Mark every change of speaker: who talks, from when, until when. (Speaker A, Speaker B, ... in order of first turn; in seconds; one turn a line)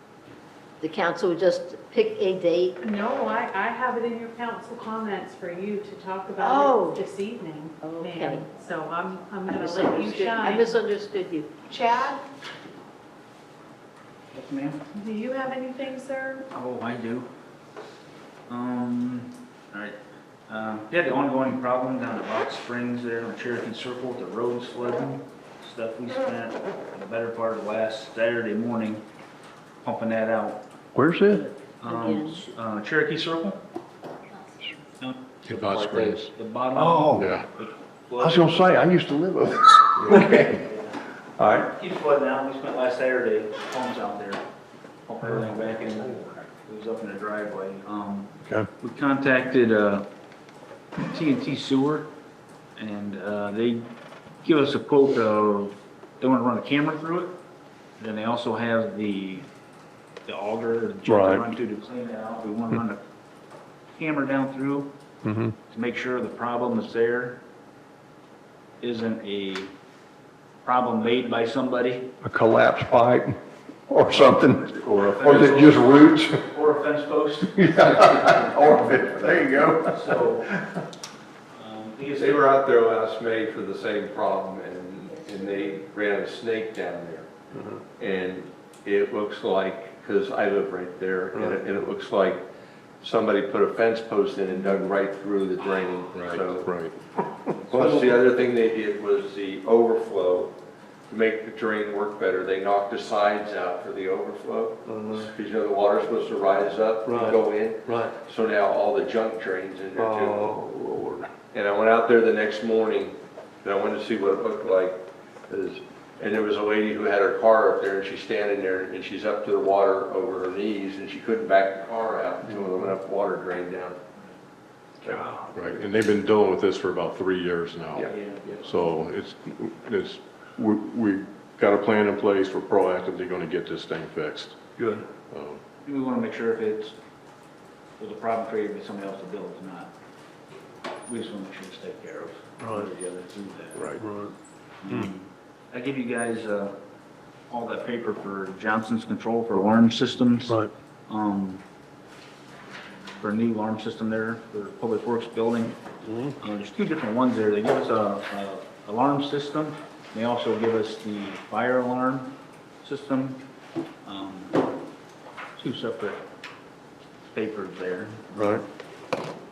Speaker A: 0.8-2.8
Speaker B: 2.8-10.8
Speaker A: 6.4-7.0
Speaker A: 7.8-8.5
Speaker A: 9.5-11.5
Speaker B: 11.7-12.2
Speaker C: 14.3-14.8
Speaker B: 14.9-16.4
Speaker C: 16.5-17.3
Speaker C: 18.5-20.0
Speaker C: 20.5-29.1
Speaker C: 29.8-30.6
Speaker D: 30.9-31.5
Speaker A: 31.3-32.5
Speaker C: 31.8-33.6
Speaker C: 35.0-38.7
Speaker E: 35.5-36.3
Speaker D: 36.7-37.3
Speaker E: 37.2-37.5
Speaker D: 38.2-40.6
Speaker C: 40.1-41.0
Speaker D: 41.4-41.7
Speaker C: 41.6-44.4
Speaker C: 45.1-50.1
Speaker C: 51.0-52.1
Speaker C: 52.8-53.9
Speaker C: 54.4-57.4
Speaker C: 58.0-59.5
Speaker C: 60.3-63.0
Speaker D: 61.0-61.5
Speaker C: 64.0-64.9
Speaker D: 65.2-65.5
Speaker C: 65.7-67.4
Speaker C: 68.8-69.7
Speaker C: 70.6-72.1
Speaker D: 72.2-73.4
Speaker D: 73.9-76.4
Speaker C: 74.9-80.5
Speaker D: 77.5-80.8
Speaker C: 81.5-82.5
Speaker F: 82.1-87.3
Speaker D: 87.5-87.8
Speaker F: 88.0-92.5
Speaker D: 91.3-91.6
Speaker F: 93.0-96.7
Speaker E: 96.1-97.0
Speaker F: 97.7-100.6
Speaker D: 97.7-98.1
Speaker F: 101.1-110.5
Speaker D: 104.8-105.3
Speaker D: 107.0-108.2
Speaker D: 110.0-111.3
Speaker F: 111.5-124.0
Speaker D: 122.5-123.0
Speaker E: 125.1-134.6
Speaker F: 127.9-128.6
Speaker C: 128.1-128.6
Speaker D: 134.8-135.1
Speaker E: 135.2-135.6
Speaker C: 135.8-137.0
Speaker C: 138.0-139.9
Speaker C: 141.1-143.9
Speaker D: 142.6-142.9
Speaker E: 143.8-144.0
Speaker D: 144.0-144.3
Speaker C: 144.8-146.8
Speaker C: 147.5-151.6
Speaker C: 153.2-155.8
Speaker D: 156.0-156.4
Speaker C: 156.4-163.4
Speaker C: 164.1-164.6
Speaker C: 165.6-166.2
Speaker C: 167.3-168.2
Speaker D: 168.3-168.6